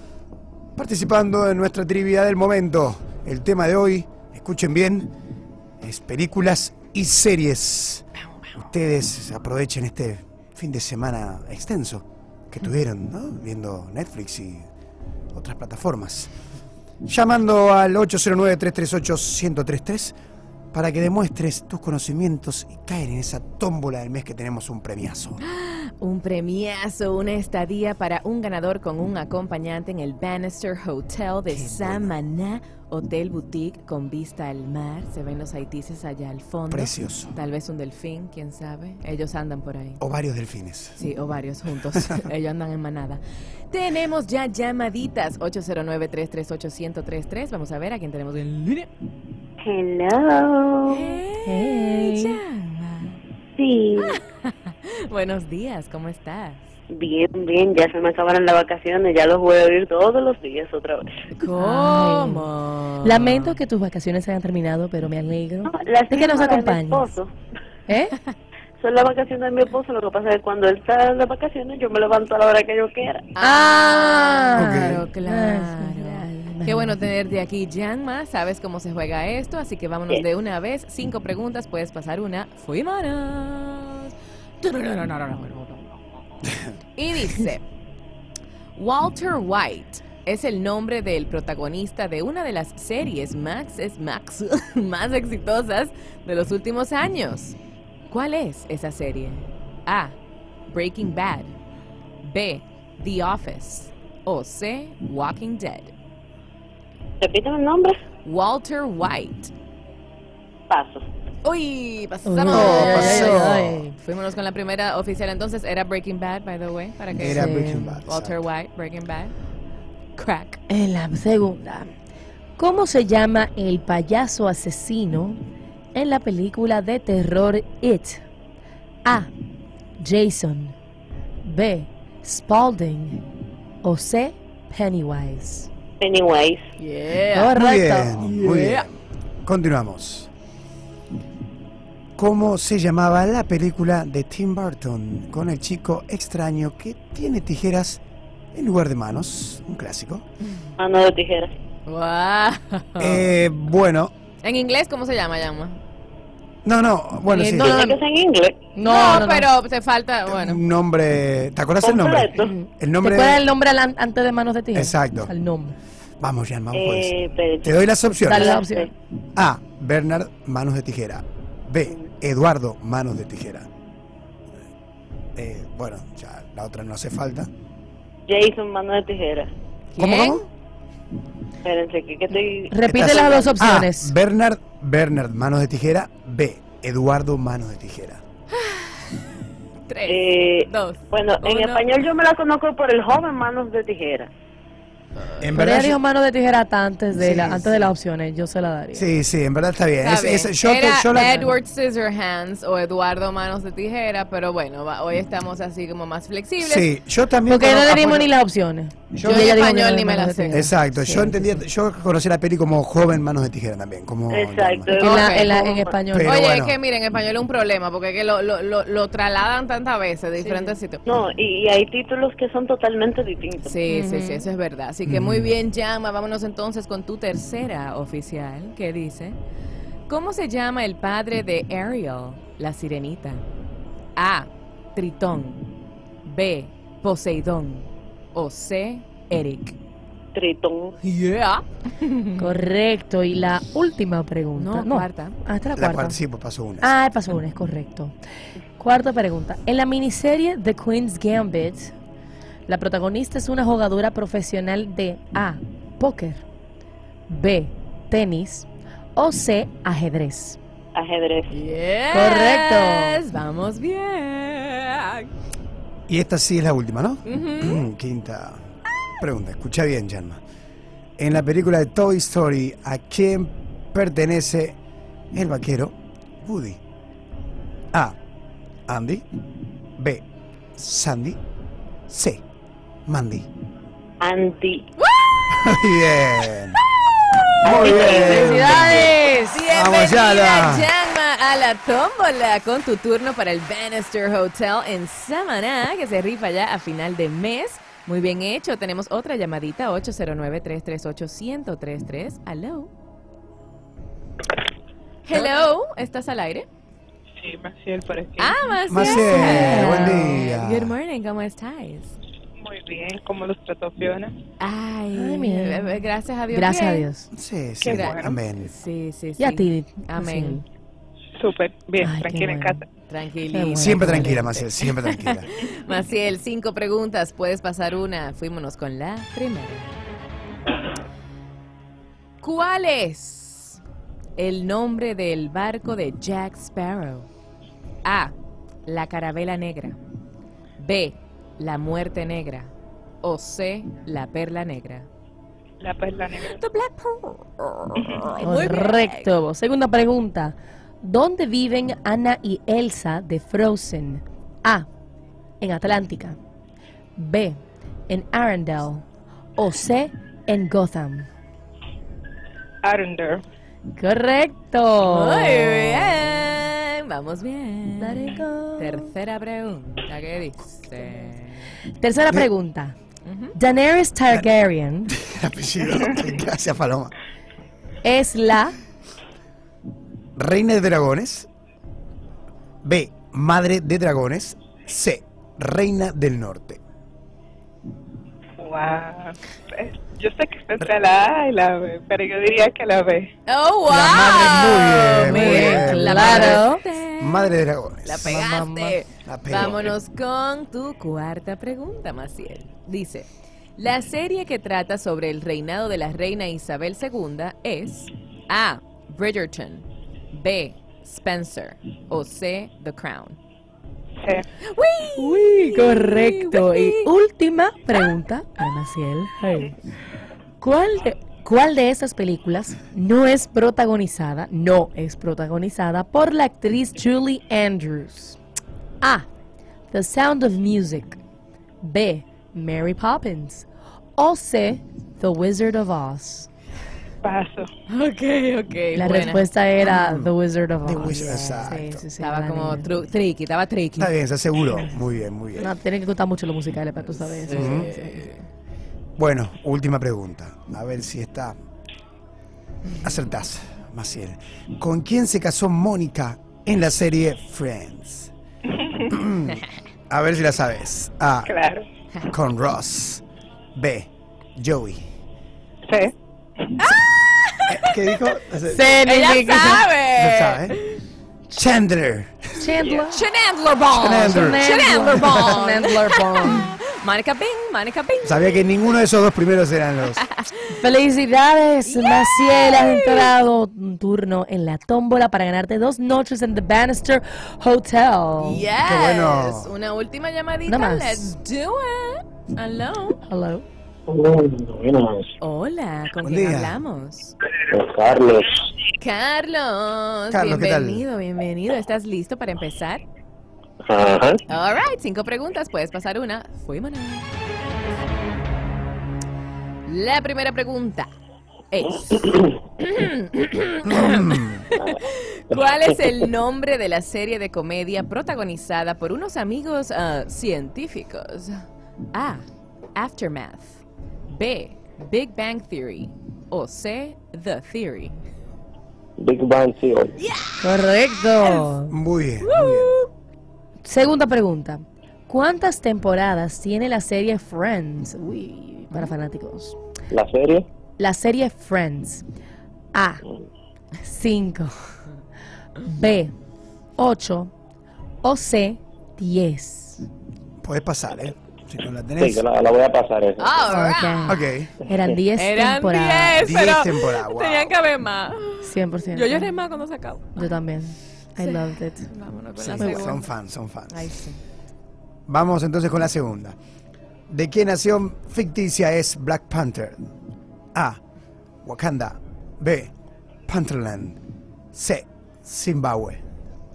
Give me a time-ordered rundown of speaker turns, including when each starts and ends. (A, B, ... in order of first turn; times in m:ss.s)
0:00.8-0:05.1 A
0:05.8-0:08.0 A
0:08.6-0:14.7 A
0:15.3-0:16.3 A
0:17.0-0:20.1 A
0:20.7-0:25.4 A
0:25.4-0:40.0 B
0:31.5-0:32.1 A
0:36.7-0:37.4 A
0:40.0-0:41.0 A
0:41.0-0:48.9 B
0:49.6-0:51.2 C
0:50.9-0:53.2 B
0:51.4-0:52.4 D
0:53.6-0:54.2 C
0:54.0-0:56.6 B
0:56.9-1:01.1 C
1:01.4-1:03.6 B
1:01.5-1:02.4 D
1:03.0-1:07.2 D
1:05.6-1:07.3 C
1:07.9-1:08.1 D
1:08.8-1:13.3 C
1:13.4-1:25.8 B
1:13.4-1:17.0 D
1:14.5-1:15.0 A
1:26.4-1:26.7 A
1:27.0-1:27.6 B
1:28.8-1:37.6 B
1:38.1-1:40.2 B
1:40.7-1:41.5 B
1:42.2-1:45.9 B
1:47.2-1:48.0 C
1:48.2-1:49.5 B
1:50.7-1:51.0 C
1:51.4-1:53.4 B
1:52.2-1:53.9 D
1:52.5-1:53.8 A
1:53.9-1:57.5 B
1:57.1-1:58.4 A
1:57.2-1:58.0 D
1:58.0-1:59.3 B
2:00.2-2:00.6 B
2:00.7-2:01.9 D
2:02.6-2:05.4 D
2:05.9-2:08.2 D
2:09.0-2:09.3 D
2:10.0-2:10.7 D
2:11.4-2:13.2 D
2:13.8-2:15.7 D
2:16.0-2:16.6 C
2:16.8-2:17.6 B
2:17.3-2:18.1 D
2:17.5-2:20.3 A
2:18.1-2:18.8 B
2:22.2-2:28.0 A
2:28.5-2:30.2 A
2:30.8-2:31.5 C
2:31.8-2:33.3 B
2:33.0-2:34.1 A
2:34.4-2:35.8 B
2:36.6-2:37.8 A
2:37.3-2:38.0 D
2:37.6-2:38.7 C
2:38.7-2:39.5 D
2:38.8-2:40.6 B
2:40.3-2:43.4 A
2:41.8-2:42.5 C
2:42.4-2:45.8 D
2:44.7-2:45.3 A
2:46.2-2:48.6 A
2:46.7-2:48.9 C
2:48.2-2:48.9 D
2:49.4-2:53.7 A
2:55.4-2:57.5 A
2:58.3-2:59.5 C
2:59.9-3:00.4 A
3:00.0-3:00.5 B
3:01.6-3:03.4 C
3:02.7-3:04.1 D
3:02.8-3:08.2 A
3:08.5-3:12.0 B
3:10.1-3:14.3 C
3:15.4-3:16.0 A
3:15.6-3:19.1 D
3:17.2-3:17.9 A
3:18.9-3:21.4 A
3:20.0-3:26.9 B
3:21.2-3:21.5 D
3:26.6-3:28.3 A
3:27.5-3:31.6 D
3:29.1-3:29.5 A
3:29.2-3:30.7 B
3:30.5-3:34.9 A
3:34.3-3:35.9 C
3:35.0-3:36.4 D
3:35.0-3:35.6 B
3:36.1-3:36.8 A
3:36.2-3:41.0 B
3:40.4-3:40.8 D
3:41.0-3:43.8 C
3:43.6-3:49.4 B
3:43.9-3:44.5 D
3:45.0-3:45.6 A
3:50.1-3:53.4 B
3:54.2-3:55.6 B
3:56.2-3:59.7 B
4:00.3-4:00.9 C
4:01.0-4:02.5 B
4:02.4-4:06.2 D
4:04.5-4:05.4 B
4:05.8-4:06.9 A
4:06.8-4:08.2 D
4:08.8-4:11.9 D
4:12.7-4:16.4 D
4:17.3-4:20.6 D
4:20.9-4:21.5 C
4:21.5-4:25.3 B
4:22.1-4:23.2 D
4:26.1-4:28.6 A
4:27.2-4:27.8 B
4:29.2-4:30.4 A
4:31.2-4:34.8 A
4:35.3-4:36.8 A
4:38.9-4:39.2 A
4:40.0-4:40.2 A
4:40.8-4:41.4 A
4:42.1-4:42.4 A
4:43.1-4:43.5 A
4:44.2-4:44.8 C
4:45.0-4:45.3 B
4:45.5-4:46.8 A
4:47.6-4:49.1 A
4:47.6-4:48.6 C
4:47.7-4:49.0 B
4:47.9-4:49.6 D
4:49.5-5:02.9 B
4:49.7-4:50.9 A
5:05.2-5:06.7 B
5:07.4-5:08.7 E
5:08.4-5:12.2 B
5:08.9-5:11.0 A
5:09.1-5:10.4 D
5:12.6-5:14.3 E
5:14.6-5:17.1 B
5:15.1-5:17.3 D
5:17.3-5:18.7 A
5:17.8-5:18.4 E
5:17.8-5:20.6 B
5:19.4-5:20.6 D
5:21.4-5:22.8 E
5:22.0-5:22.8 D
5:23.1-5:30.0 B
5:23.5-5:24.4 D
5:23.7-5:25.5 A
5:32.4-5:33.8 B
5:34.4-5:37.3 B
5:38.0-5:38.3 B
5:38.8-5:40.0 B
5:40.8-5:42.7 B
5:43.2-5:45.1 B
5:45.8-5:46.6 E
5:46.2-5:49.3 B
5:48.0-5:48.3 E
5:48.3-5:54.9 D
5:55.6-5:56.4 D
5:57.2-5:59.0 D
5:59.6-6:01.3 D
6:02.8-6:03.4 E
6:03.9-6:06.4 D
6:05.0-6:11.8 B
6:08.0-6:09.1 D
6:12.0-6:13.0 D
6:13.2-6:13.5 B
6:13.5-6:15.1 D
6:15.1-6:17.1 A
6:18.0-6:18.8 D
6:20.4-6:21.5 A
6:22.8-6:26.8 A
6:28.6-6:33.3 E
6:33.5-6:53.4 B
6:33.9-6:36.6 A
6:35.1-6:36.8 D
6:37.2-6:38.5 A
6:38.3-6:39.0 D
6:39.2-6:40.0 A
6:54.6-6:57.1 B
6:55.2-6:59.8 D
7:00.6-7:08.4 D
7:09.0-7:09.2 D
7:09.9-7:11.2 D
7:11.8-7:16.5 D
7:17.2-7:17.7 E
7:17.9-7:19.5 B
7:18.9-7:22.9 D
7:19.8-7:20.3 A
7:20.8-7:22.0 A
7:21.2-7:24.1 B
7:24.0-7:25.7 A
7:25.6-7:28.2 D
7:27.4-7:28.4 B
7:27.5-7:27.9 A
7:29.2-7:31.6 A
7:33.0-7:38.3 A
7:39.1-7:41.5 A
7:41.4-7:41.9 E
7:42.3-7:43.2 A
7:43.8-7:45.1 A
7:45.9-7:46.1 E
7:46.8-7:48.4 B
7:47.7-7:48.9 A
7:48.7-7:49.9 D
7:48.9-7:51.0 B
7:50.1-7:50.8 A
7:51.5-7:52.7 A
7:52.6-7:53.2 D
7:53.1-7:58.7 B
7:53.9-7:55.6 A
7:54.2-7:56.7 D
7:58.2-8:00.2 A
8:00.7-8:08.6 D
8:01.8-8:03.3 B
8:08.4-8:13.2 B
8:08.8-8:09.7 A
8:10.6-8:11.3 D
8:13.2-8:13.6 D
8:14.1-8:15.2 F
8:15.4-8:17.4 B
8:16.2-8:16.8 A
8:17.7-8:18.6 F
8:19.0-8:23.0 B
8:20.3-8:21.0 A
8:23.8-8:24.4 F
8:24.5-8:27.3 B
8:29.8-8:31.1 B
8:31.7-8:48.2 B
8:33.8-8:34.6 A
8:49.2-8:50.1 F
8:50.2-8:51.7 B
8:50.6-8:51.9 D
8:51.9-8:53.0 A
8:52.4-8:53.1 B
8:53.8-8:59.7 D
9:00.1-9:00.6 F
9:01.0-9:02.2 D
9:02.9-9:03.2 D
9:04.0-9:04.7 D
9:05.8-9:06.3 D
9:07.0-9:07.5 D
9:08.2-9:10.0 D
9:10.6-9:12.4 A
9:12.2-9:13.8 F
9:13.4-9:14.5 B
9:13.7-9:16.5 D
9:14.2-9:14.7 A
9:15.4-9:20.6 B
9:16.4-9:17.7 A
9:18.6-9:19.5 D
9:20.4-9:22.1 D
9:21.4-9:23.3 B
9:22.6-9:24.0 A
9:22.8-9:23.1 D
9:23.9-9:24.4 B
9:25.3-9:26.6 A
9:27.3-9:30.1 A
9:30.7-9:31.0 A
9:31.6-9:32.9 A
9:33.5-9:34.2 A
9:34.7-9:36.2 A